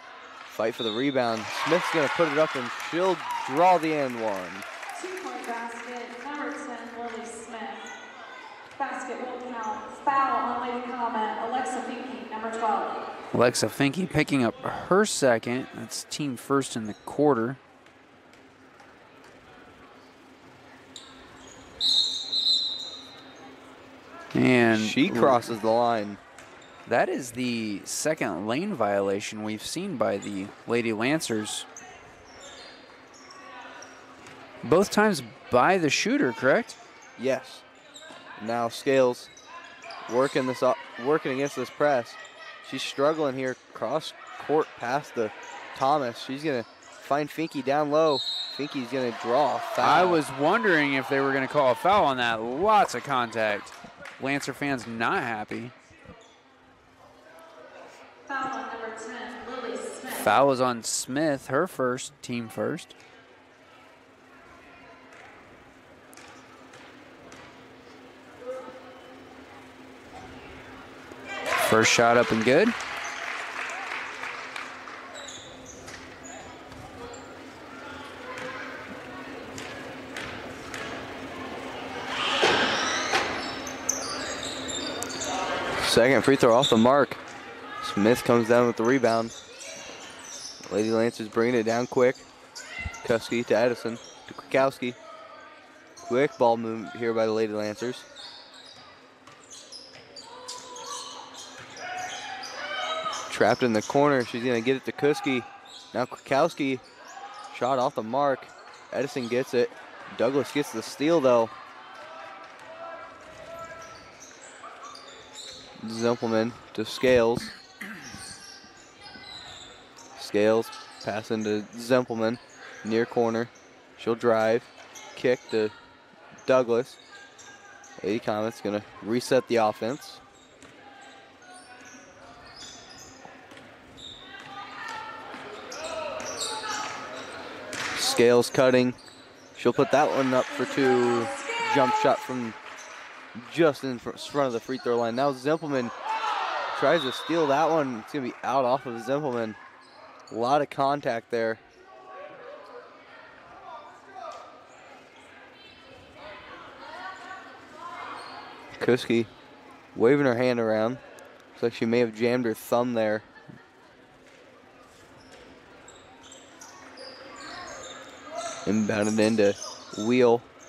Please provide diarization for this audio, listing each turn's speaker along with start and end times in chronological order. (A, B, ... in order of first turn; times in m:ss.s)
0:00.5-0:04.6 A
0:04.9-0:07.9 B
0:08.8-0:13.0 B
0:13.3-0:17.6 C
0:24.3-0:25.6 C
0:24.7-0:26.2 A
0:26.9-0:31.7 C
0:34.6-0:36.8 C
0:37.2-0:37.6 A
0:38.4-0:39.3 A
0:40.1-0:50.2 A
0:49.8-0:55.7 C
0:58.3-1:00.4 B
1:00.1-1:02.9 C
1:11.6-1:12.7 C
1:25.8-1:27.2 A
1:27.8-1:29.3 A
1:30.7-1:32.2 A
1:33.0-1:35.0 A
1:36.0-1:38.0 A
1:43.3-1:46.8 A
1:47.5-1:51.5 A
1:55.8-1:57.5 A
2:00.2-2:05.7 A
2:06.4-2:07.0 A
2:08.0-2:10.2 A
2:17.9-2:19.0 A
2:19.6-2:22.6 A
2:23.3-2:25.9 A
2:26.7-2:29.6 A
2:30.3-2:31.6 A
2:38.8-2:39.3 A
2:39.9-2:41.0 A
2:41.6-2:43.2 A
2:48.6-2:50.5 A